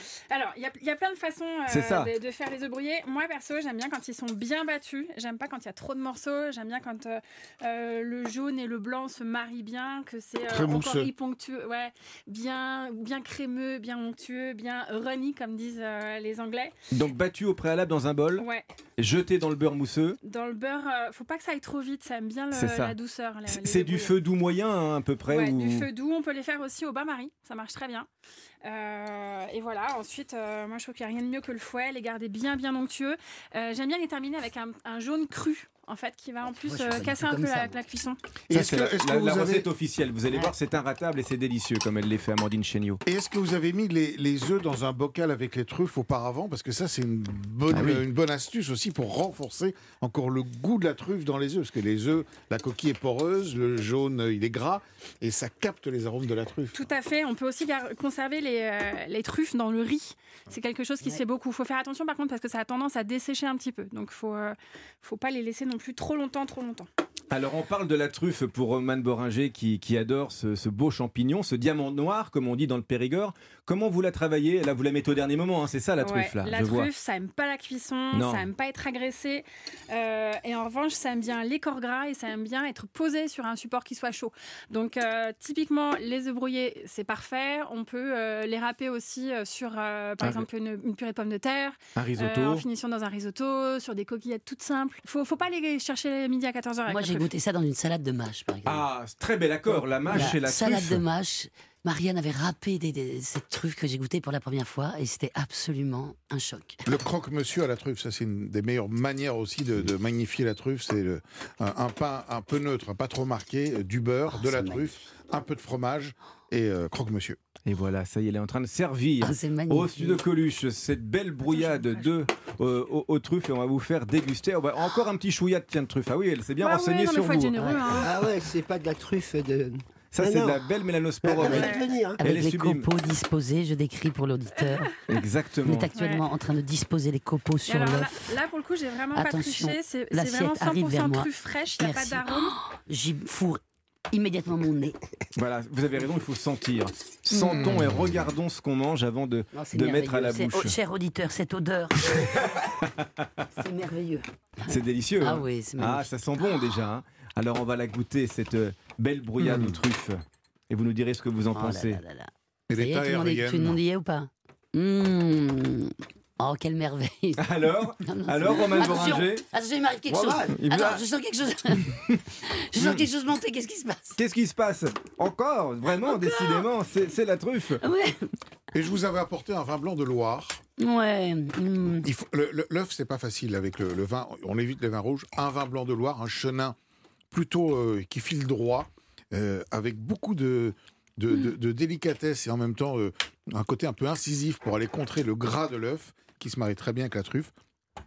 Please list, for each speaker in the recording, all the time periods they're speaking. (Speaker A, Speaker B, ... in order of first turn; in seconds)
Speaker A: 0.3-16.7, 18.4-18.7, 20.2-24.2, 25.3-28.1, 28.6-38.2, 56.7-66.9, 76.0-97.3, 121.5-122.2, 126.6-128.2, 131.4-131.9, 135.9-136.2, 137.7-142.6
Speaker B: 1.7-2.1, 16.9-18.4, 19.0-20.2, 22.5-22.9, 23.5-25.9, 38.5-43.0, 47.7-48.0, 67.3-76.9, 78.1-78.5, 90.2-90.5, 92.0-92.6, 98.6-101.0, 117.7-127.7, 130.1-132.9, 135.1-135.9, 145.3-150.8, 152.0-153.4, 154.7-162.0, 167.4-169.4, 170.5-171.0, 172.8-173.0, 174.2-177.8
Speaker C: 10.5-11.1, 38.5-39.7, 43.0-56.8, 106.8-117.4, 147.5-148.1, 159.4-159.8, 162.7-163.8, 178.7-180.6, 182.0-186.7, 187.3-197.5
Speaker D: 36.5-37.8, 96.9-98.8, 100.0-106.8, 114.3-114.9, 119.2-120.2, 127.6-127.9, 131.4-134.9, 135.6-138.2, 139.1-143.6, 144.1-144.9, 147.3-147.8, 149.5-152.4, 153.5-156.4, 161.5-174.2, 175.9-176.7, 177.8-178.3, 180.8-182.1
Speaker E: 127.8-130.6, 131.2-132.2, 170.1-170.6